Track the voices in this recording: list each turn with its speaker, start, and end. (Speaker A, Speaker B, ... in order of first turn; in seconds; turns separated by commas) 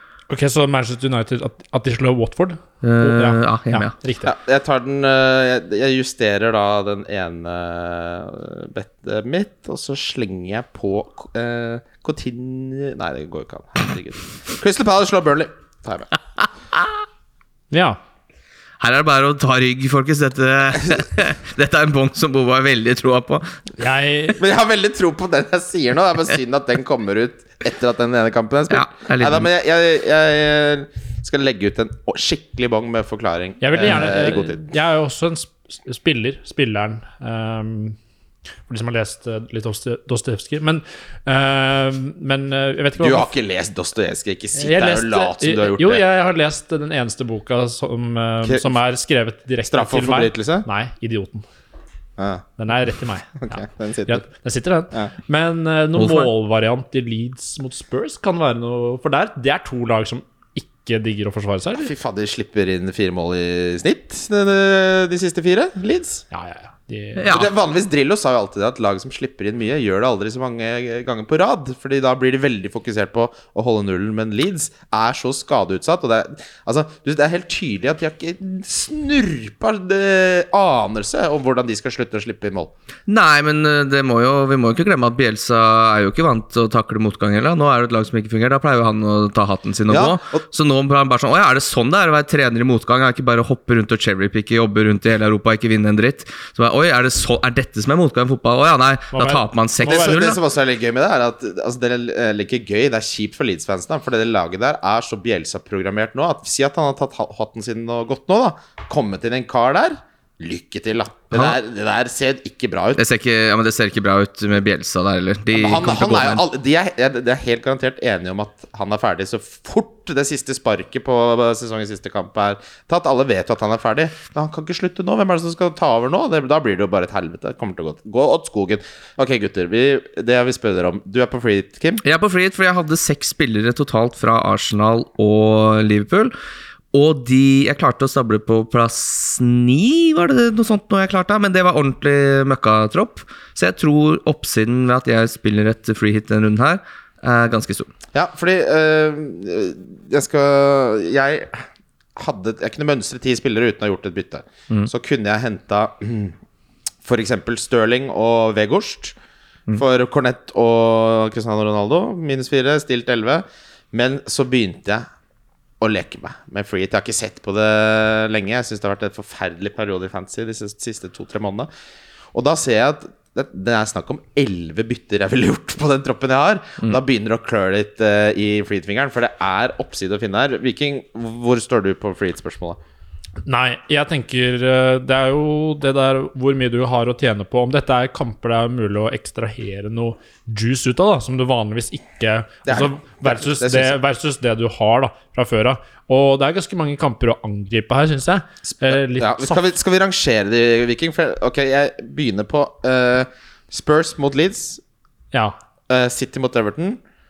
Speaker A: 0.3-4.3, Speaker B: 2.8-3.9, Speaker C: 4.2-16.1, Speaker A: 17.7-18.0, Speaker B: 18.8-23.6, Speaker A: 23.8-24.4, Speaker C: 24.4-34.6, Speaker B: 28.7-29.5, Speaker A: 33.6-38.0, Speaker A: 38.7-43.3, Speaker C: 43.0-46.0, Speaker A: 44.6-51.5, Speaker C: 48.4-48.7, Speaker C: 49.7-50.7, Speaker C: 52.2-52.5, Speaker A: 52.6-61.9, Speaker C: 53.4-54.2, Speaker B: 56.0-56.3, Speaker C: 61.8-66.2, Speaker A: 66.3-67.5, Speaker B: 67.2-67.5, Speaker C: 67.3-82.7, Speaker B: 83.1-100.4, Speaker C: 89.9-90.4, Speaker A: 99.1-100.2, Speaker C: 99.8-113.0, Speaker B: 113.0-116.4, Speaker C: 115.5-132.0, Speaker B: 132.0-136.3, Speaker B: 136.9-147.9, Speaker C: 148.1-156.3, Speaker C: 157.0-159.2, Speaker C: 159.7-165.1, Speaker C: 165.8-171.7, Speaker C: 172.3-182.8, Speaker A: 183.4-199.7, Speaker C: 192.7-194.0, Speaker C: 198.6-204.8, Speaker C: 205.9-207.0